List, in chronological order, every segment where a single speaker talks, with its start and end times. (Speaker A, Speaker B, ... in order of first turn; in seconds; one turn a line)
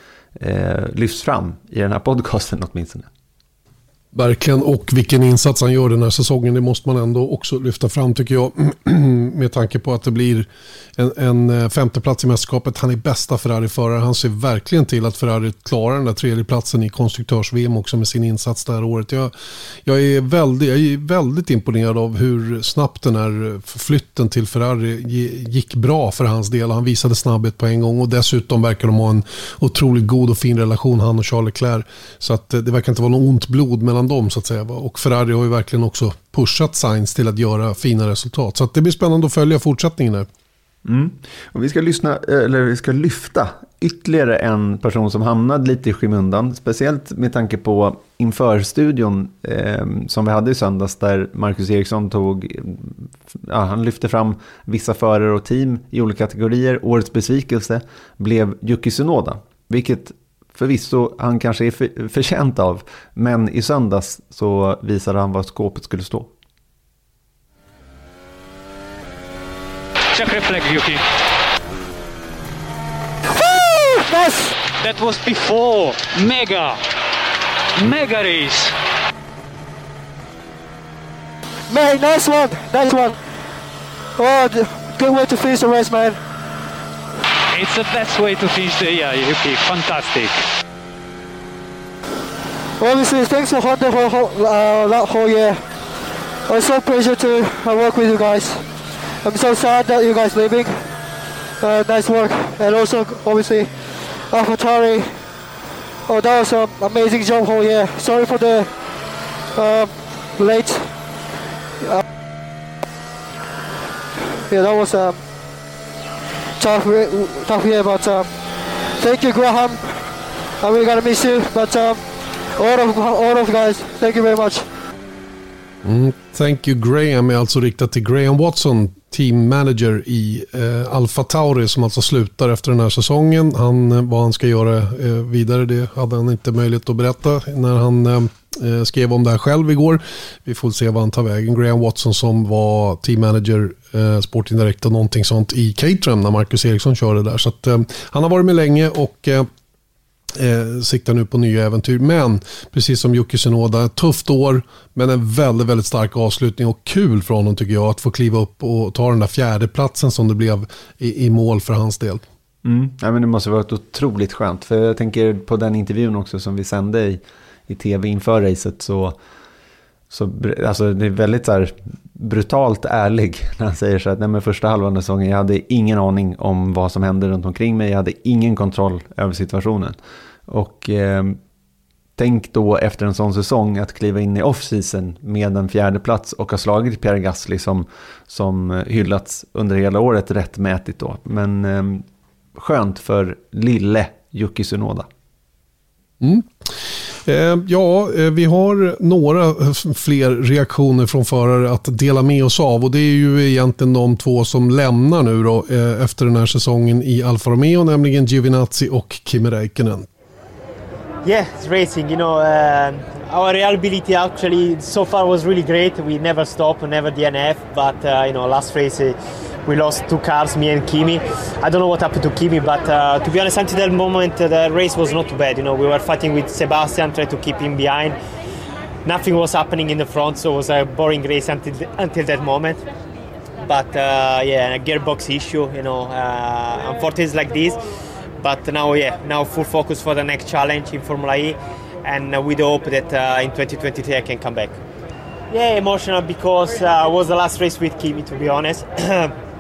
Speaker A: 0.4-3.1
Speaker B: 4.1-19.3
Speaker B: 19.8-40.3
Speaker A: 40.8-66.3
Speaker C: 70.1-71.0
Speaker D: 74.0-74.5
Speaker C: 74.6-76.8
Speaker C: 77.8-78.7
Speaker D: 81.7-83.2
Speaker D: 84.2-86.2
Speaker C: 87.5-90.4
Speaker D: 92.8-95.6
Speaker D: 96.5-98.7
Speaker D: 99.2-100.9
Speaker D: 101.6-105.2
Speaker D: 106.1-108.7
Speaker D: 109.5-110.9
Speaker D: 114.5-115.2
Speaker D: 116.6-118.3
Speaker D: 118.9-122.0
Speaker D: 122.5-124.7
Speaker B: 125.8-149.5
Speaker B: 150.3-162.2
Speaker A: 162.6-169.2
Speaker A: 170.1-180.0
Speaker A: 180.5-181.4
Speaker A: 182.2-195.1
Speaker B: 196.2-210.1
Speaker E: 211.2-228.2
Speaker E: 229.1-232.8
Speaker E: 233.6-237.8
Speaker E: 238.4-244.8
Speaker E: 245.5-249.3